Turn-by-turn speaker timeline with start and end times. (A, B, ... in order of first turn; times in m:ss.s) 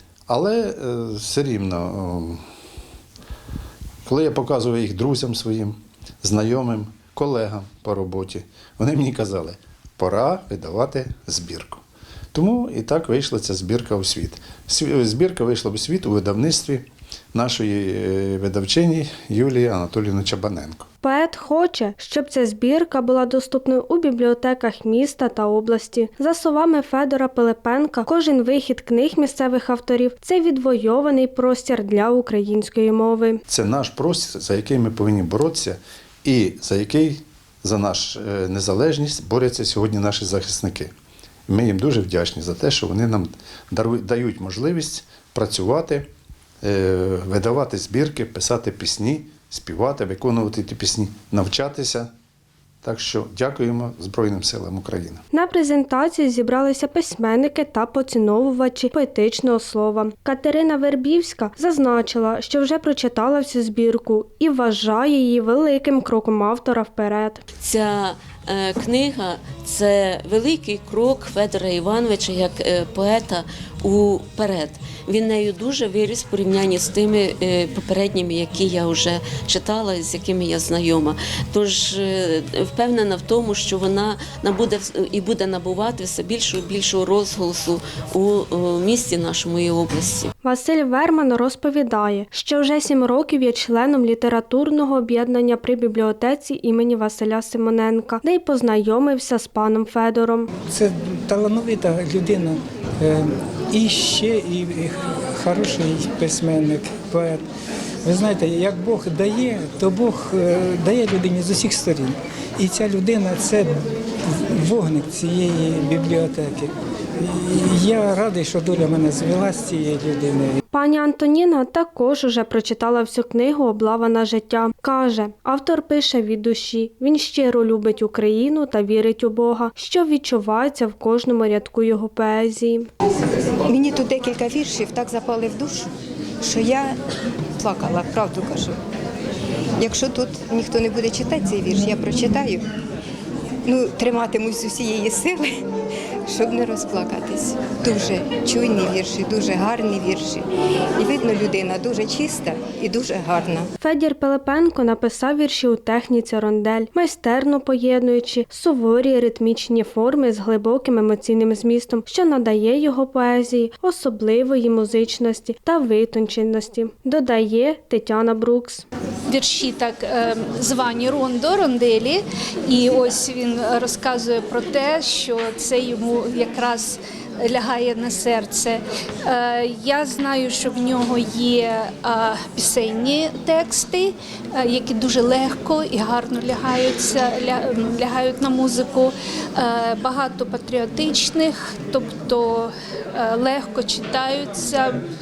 0:00.3-0:02.4 A
0:04.1-0:11.8 A
0:12.3-0:20.9 A
0:21.0-0:33.4 B
0:33.5-0:40.9 A
0:41.5-0:46.1 A
0:46.6-0:52.1 A
0:52.8-0:55.2 A
0:55.3-1:07.4 B
1:07.6-1:30.3 C
1:30.4-1:40.5 B
1:40.7-1:47.4 D
1:48.0-1:53.8 D
1:54.3-2:00.6 D
2:00.7-2:12.9 B
2:13.7-2:15.9 E
2:16.4-2:17.0 E
2:17.6-2:18.8 E
2:19.8-2:22.6 E
2:23.7-2:25.5 E
2:26.3-2:30.4 E
2:31.0-2:33.7 E
2:33.8-2:48.9 B
2:49.3-3:15.0 F